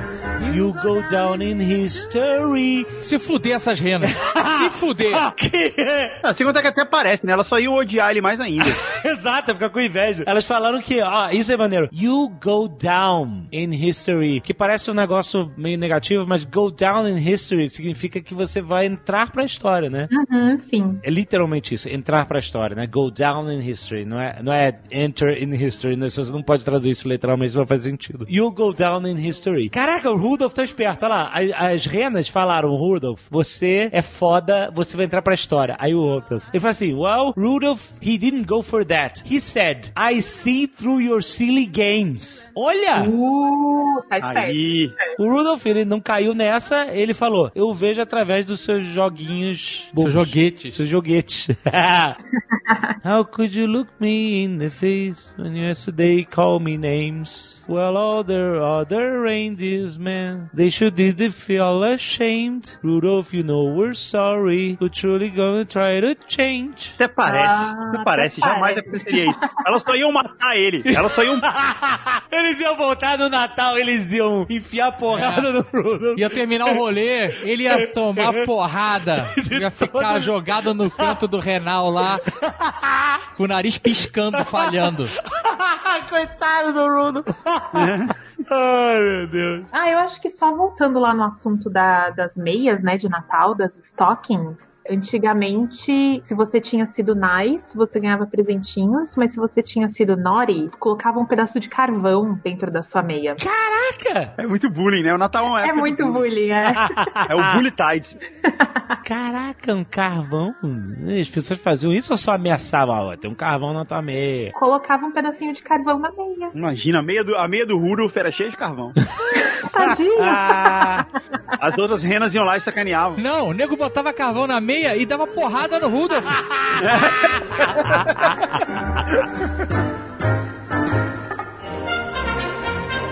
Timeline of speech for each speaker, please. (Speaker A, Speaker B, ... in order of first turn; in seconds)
Speaker A: 0.4-3.0, 4.0-6.2, 8.6-20.1, 21.0-43.1, 45.2-52.2, 53.0-67.0, 70.9-78.5, 79.0-81.2, 82.0-83.2, 84.0-87.9, 88.5-89.7, 103.4-104.3, 106.7-107.6, 109.0-114.5, 120.2-121.0, 127.8-128.1
Speaker B: 3.0-5.2, 50.0-50.8, 75.1-75.5, 76.2-82.2, 83.4-85.1, 123.2-126.5
Speaker C: 6.2-8.8, 44.2-45.0, 67.0-71.5, 87.7-88.1, 104.4-106.3, 107.3-108.2, 116.5-119.0, 121.6-123.2, 126.8-128.0
Speaker D: 20.1-21.0, 43.0-45.2, 52.5-53.0, 67.2-69.5, 89.7-103.4, 105.6-107.1, 108.5-109.0, 114.5-116.5, 119.3-121.1